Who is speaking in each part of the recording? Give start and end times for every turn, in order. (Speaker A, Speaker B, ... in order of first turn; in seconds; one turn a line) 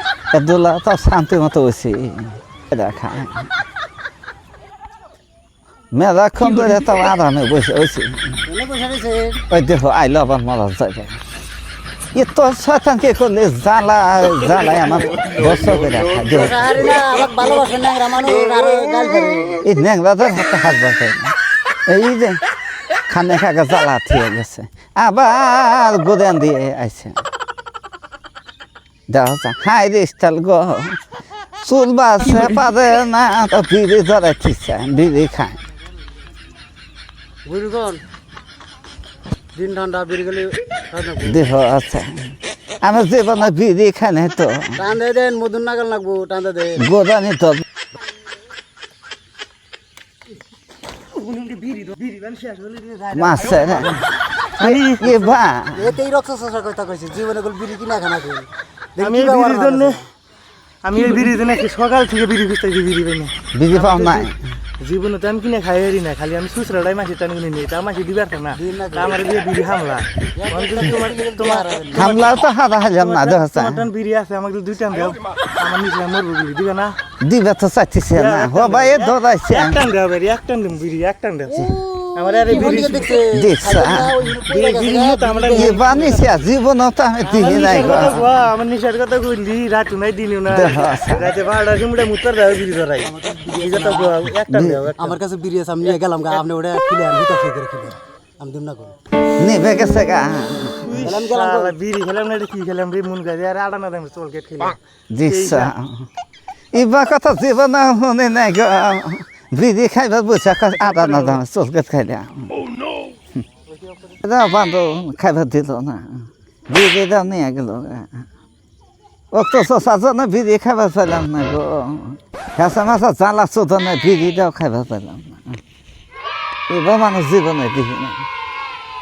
Speaker A: 0.3-3.5
Speaker A: 5.9-8.4
Speaker B: 8.4-9.4
Speaker A: 9.5-11.2
Speaker A: 12.1-16.7
Speaker B: 16.3-19.6
Speaker A: 19.6-21.3
Speaker A: 21.9-22.4
Speaker A: 23.1-27.2
Speaker A: 29.1-31.0
Speaker A: 31.6-35.6
Speaker B: 37.4-38.0
Speaker B: 39.5-41.5
Speaker A: 41.2-44.9
Speaker B: 44.8-46.9
Speaker A: 46.8-47.6
Speaker C: 51.1-54.1
Speaker A: 53.1-54.0
Speaker C: 54.6-55.3
Speaker A: 54.6-55.9
Speaker B: 55.7-60.0
Speaker C: 59.0-60.0
Speaker C: 60.8-64.3
Speaker A: 63.5-64.4
Speaker C: 64.8-77.0
Speaker B: 68.5-69.2
Speaker B: 70.3-72.2
Speaker A: 71.9-73.9
Speaker A: 77.2-79.8
Speaker C: 78.1-83.2
Speaker B: 81.6-86.2
Speaker A: 83.3-84.2
Speaker C: 84.4-86.3
Speaker A: 85.5-88.4
Speaker C: 87.2-95.2
Speaker A: 90.5-91.3
Speaker B: 93.0-94.2
Speaker A: 94.5-94.9
Speaker B: 95.0-98.9
Speaker C: 95.9-96.3
Speaker A: 99.4-101.0
Speaker C: 100.8-105.7
Speaker B: 100.9-101.7
Speaker A: 105.1-106.1
Speaker A: 106.7-112.6
Speaker C: 110.8-111.4
Speaker A: 114.1-118.2
Speaker A: 119.3-125.6
Speaker A: 126.7-128.2